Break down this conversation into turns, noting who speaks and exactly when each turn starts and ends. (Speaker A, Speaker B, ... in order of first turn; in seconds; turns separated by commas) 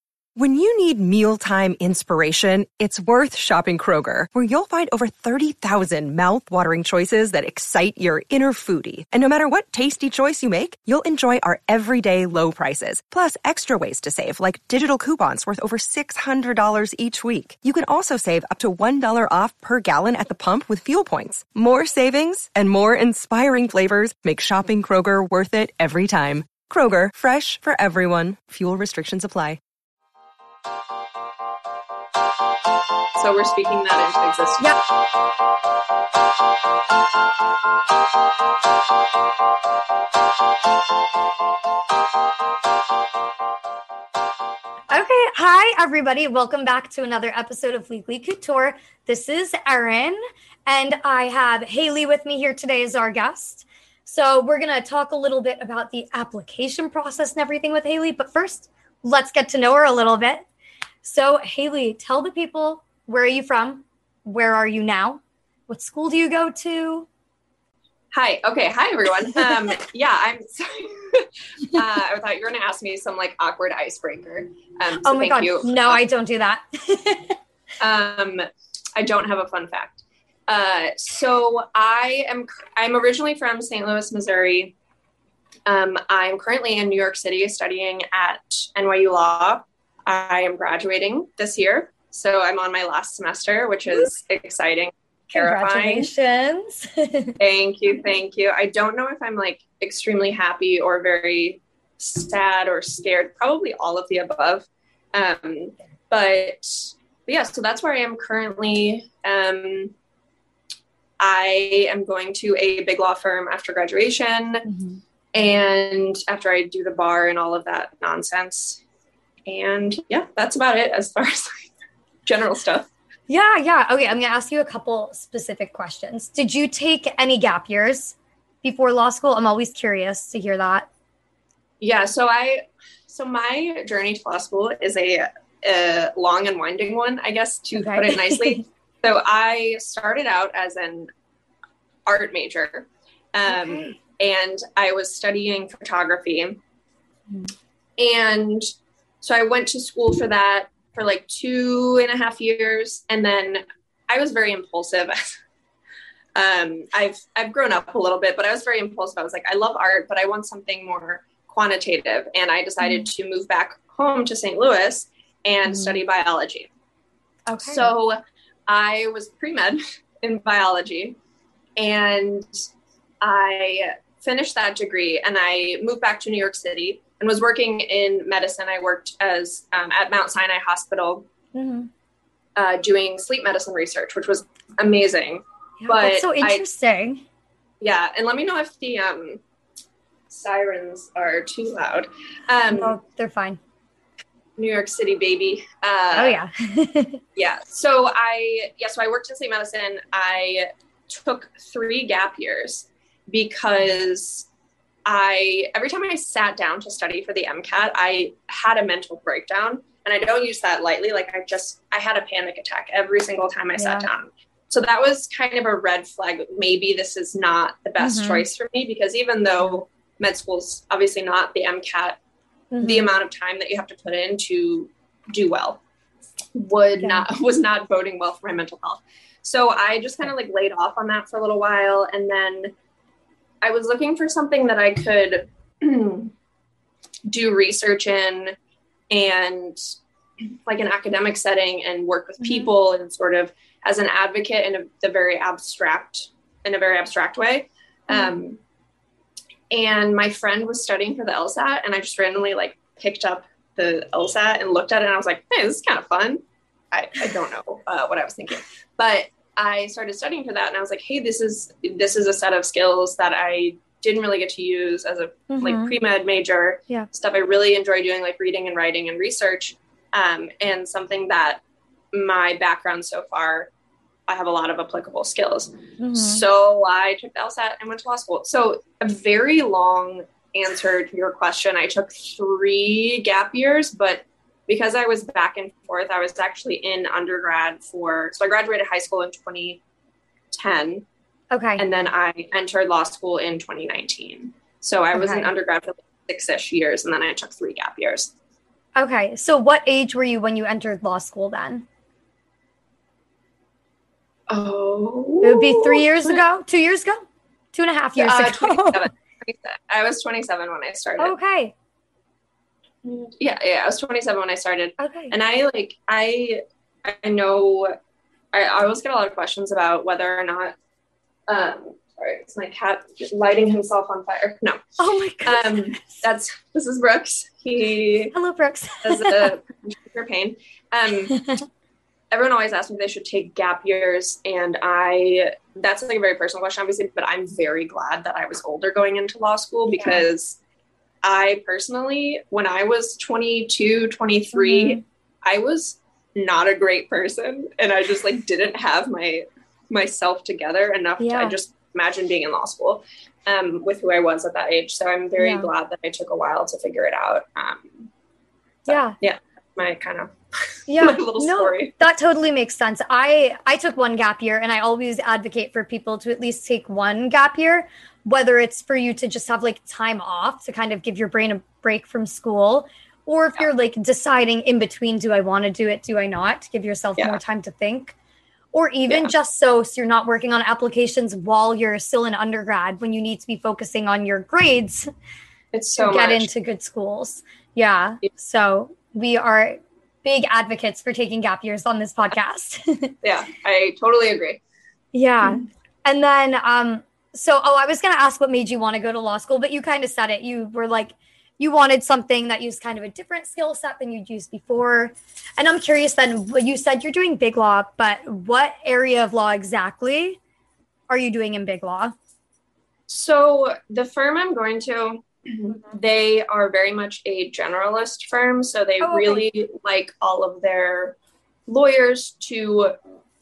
Speaker A: 0.4-29.6, Speaker B: 33.2-34.7, Speaker C: 44.9-60.5, Speaker C: 61.0-67.1, Speaker B: 68.1-76.0, Speaker C: 75.0-77.4, Speaker B: 77.8-78.4, Speaker B: 79.0-84.7, Speaker B: 85.7-96.1, Speaker C: 95.3-97.4, Speaker B: 97.4-109.9, Speaker B: 111.2-114.7, Speaker C: 114.7-115.0, Speaker B: 115.3-118.8, Speaker B: 119.5-121.7, Speaker B: 122.3-122.9, Speaker C: 123.3-130.9, Speaker B: 131.8-141.1, Speaker C: 137.8-138.6, Speaker B: 142.1-146.6, Speaker C: 143.4-144.0, Speaker B: 148.0-148.7, Speaker B: 149.2-155.3, Speaker B: 156.3-166.7, Speaker C: 162.8-163.1, Speaker C: 165.7-166.0, Speaker C: 167.5-167.9, Speaker B: 167.7-171.2, Speaker B: 171.8-172.5, Speaker B: 173.2-181.3, Speaker C: 181.5-181.9, Speaker B: 182.6-186.6, Speaker C: 185.8-187.2, Speaker B: 187.8-189.4, Speaker B: 190.3-193.0, Speaker C: 192.7-193.6, Speaker B: 194.6-196.4, Speaker C: 196.1-197.2, Speaker B: 197.4-204.5, Speaker B: 205.1-222.2, Speaker C: 213.8-214.1, Speaker C: 218.0-218.5, Speaker C: 222.7-223.1, Speaker B: 222.8-225.8, Speaker B: 226.6-232.7, Speaker C: 227.0-227.3, Speaker B: 233.6-236.3, Speaker B: 237.3-238.6, Speaker B: 239.1-239.8, Speaker B: 240.5-248.6, Speaker C: 242.4-242.7, Speaker B: 249.7-256.4, Speaker B: 256.9-271.6, Speaker C: 265.5-265.9, Speaker B: 272.1-273.7, Speaker B: 274.3-289.8, Speaker C: 276.0-276.4, Speaker B: 290.5-291.1, Speaker C: 291.5-291.9, Speaker B: 291.8-298.3, Speaker C: 295.1-295.5, Speaker C: 299.0-301.9, Speaker B: 304.5-306.4, Speaker C: 305.4-309.1, Speaker B: 308.2-311.4, Speaker C: 311.2-311.7, Speaker B: 313.1-318.0, Speaker C: 315.0-315.4, Speaker B: 318.5-320.8, Speaker B: 321.5-324.8, Speaker C: 325.0-326.2, Speaker B: 325.4-328.4, Speaker C: 328.3-329.5, Speaker B: 329.0-331.5, Speaker B: 332.3-340.6, Speaker C: 339.9-340.2, Speaker B: 341.2-358.1, Speaker C: 344.5-345.0, Speaker C: 351.2-351.6, Speaker C: 355.4-355.7, Speaker B: 358.9-361.9, Speaker C: 358.9-359.2, Speaker C: 360.9-378.2, Speaker C: 378.7-385.1, Speaker B: 385.7-386.5, Speaker C: 386.0-393.1, Speaker B: 393.2-394.6, Speaker C: 395.1-410.4, Speaker C: 411.1-412.1, Speaker B: 413.1-421.2, Speaker C: 419.0-419.5, Speaker B: 421.7-422.9